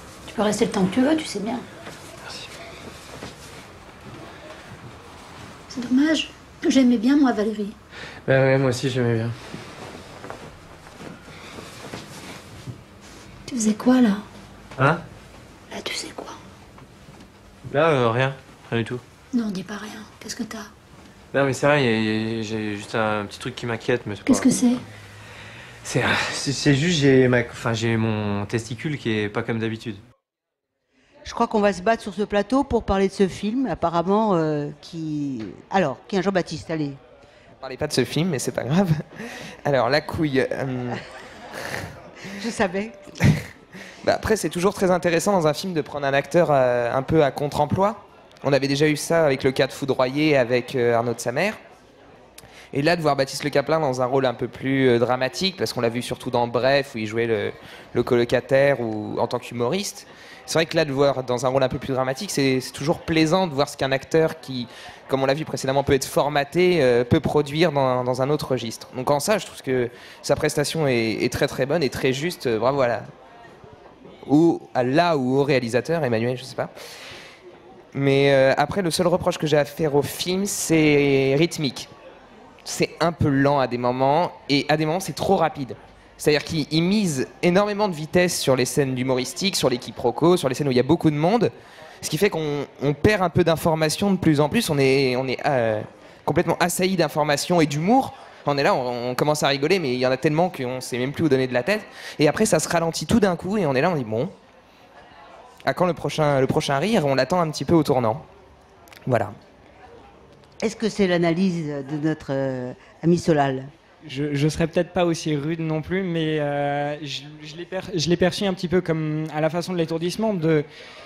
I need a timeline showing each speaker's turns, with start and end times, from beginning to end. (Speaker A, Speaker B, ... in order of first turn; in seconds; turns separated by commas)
Speaker A: 0.2-1.6, Speaker A: 5.7-7.7, Speaker B: 8.2-9.3, Speaker A: 13.5-14.2, Speaker B: 14.8-15.0, Speaker A: 15.7-16.4, Speaker B: 17.7-19.0, Speaker A: 19.3-20.7, Speaker B: 21.3-24.5, Speaker A: 24.2-24.8, Speaker B: 25.8-30.0, Speaker C: 31.2-37.0, Speaker D: 37.6-41.0, Speaker C: 42.3-43.1, Speaker D: 44.0-51.6, Speaker D: 52.7-73.1, Speaker D: 74.2-76.7, Speaker D: 77.9-81.9, Speaker D: 82.6-104.3, Speaker D: 105.7-108.2, Speaker D: 109.1-109.3, Speaker C: 110.6-113.7, Speaker E: 114.0-120.7